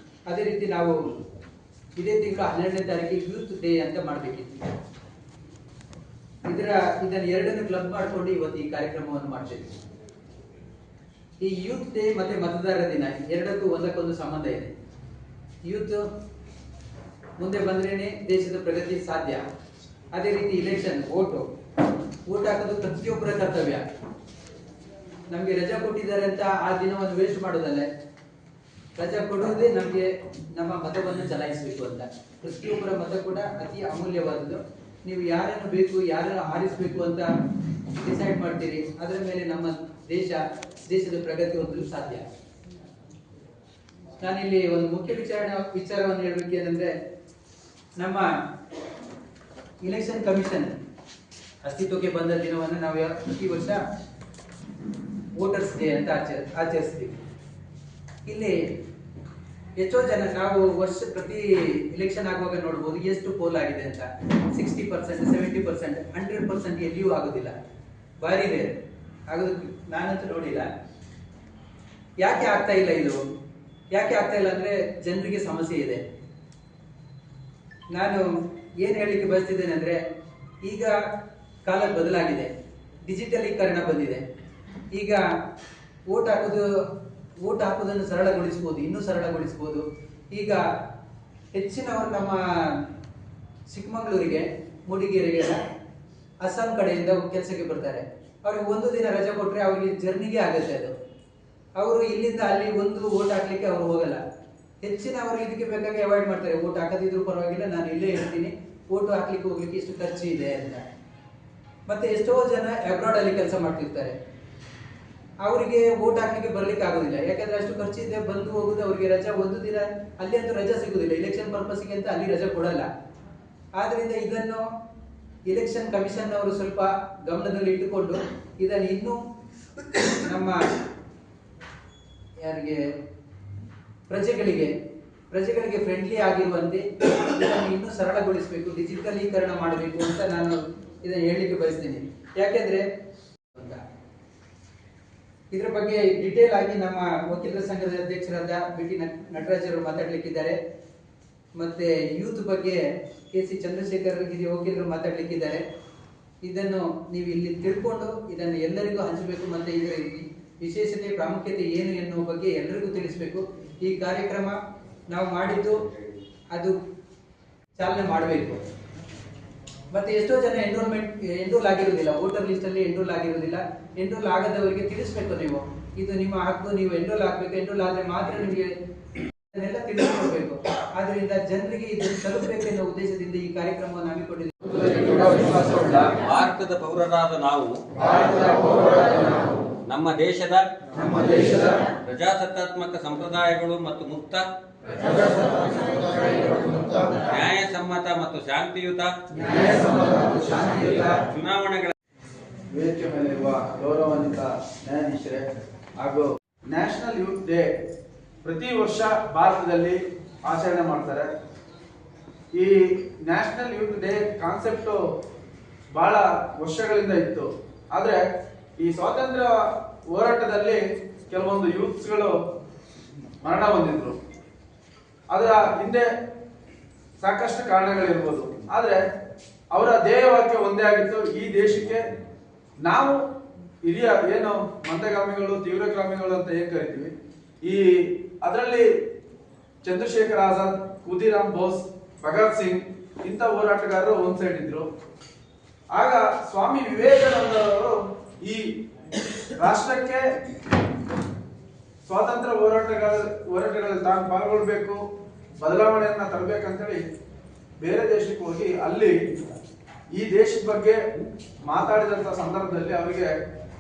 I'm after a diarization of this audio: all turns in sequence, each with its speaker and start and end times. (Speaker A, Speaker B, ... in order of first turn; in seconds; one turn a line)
Speaker A: 0.3-1.0
Speaker A: 2.0-4.7
Speaker A: 6.5-9.8
Speaker A: 11.4-14.7
Speaker A: 15.7-16.0
Speaker A: 17.4-19.4
Speaker A: 20.1-21.5
Speaker A: 22.3-23.8
Speaker A: 25.3-27.9
Speaker A: 29.0-37.3
Speaker A: 38.0-42.3
Speaker A: 44.2-46.9
Speaker A: 48.0-48.3
Speaker A: 49.8-50.8
Speaker A: 51.6-53.8
Speaker A: 55.4-57.2
Speaker A: 58.2-58.7
Speaker A: 59.8-67.5
Speaker A: 68.2-68.8
Speaker A: 69.3-70.7
Speaker A: 72.2-73.2
Speaker A: 73.9-76.0
Speaker A: 77.9-78.3
Speaker A: 78.8-80.0
Speaker A: 80.6-81.0
Speaker A: 81.7-82.5
Speaker A: 83.0-84.2
Speaker A: 84.9-85.2
Speaker A: 86.1-86.7
Speaker A: 87.4-90.6
Speaker A: 91.5-92.4
Speaker A: 93.7-95.6
Speaker A: 96.4-100.9
Speaker A: 101.8-104.2
Speaker A: 104.8-110.8
Speaker A: 111.9-114.2
Speaker A: 115.4-122.9
Speaker A: 123.8-124.7
Speaker A: 125.5-129.2
Speaker A: 130.0-130.7
Speaker A: 132.4-132.8
Speaker A: 134.1-134.7
Speaker A: 135.3-142.9
Speaker A: 143.5-143.8
Speaker A: 145.5-150.6
Speaker A: 151.6-155.6
Speaker A: 156.4-164.6
Speaker A: 165.1-165.8
Speaker A: 166.5-166.8
Speaker A: 167.8-168.7
Speaker A: 169.9-178.7
Speaker A: 179.5-186.1
Speaker B: 184.9-185.9
Speaker C: 186.1-189.0
Speaker C: 189.9-190.7
Speaker B: 190.9-191.9
Speaker C: 192.0-194.4
Speaker B: 195.0-197.1
Speaker C: 197.2-199.1
Speaker B: 199.3-201.2
Speaker C: 201.3-201.9
Speaker B: 202.7-205.5
Speaker B: 206.0-207.7
Speaker B: 208.4-211.3
Speaker B: 212.5-215.0
Speaker B: 215.9-218.2
Speaker B: 218.8-222.4
Speaker B: 223.4-224.2
Speaker B: 225.3-226.1
Speaker B: 227.2-229.0
Speaker B: 229.7-232.1
Speaker B: 232.8-233.2
Speaker B: 233.8-238.9
Speaker B: 239.8-244.9
Speaker B: 245.9-248.6
Speaker B: 249.6-250.3
Speaker B: 252.1-255.0
Speaker B: 255.6-257.0
Speaker B: 257.8-259.5
Speaker B: 260.1-261.0
Speaker B: 261.7-263.3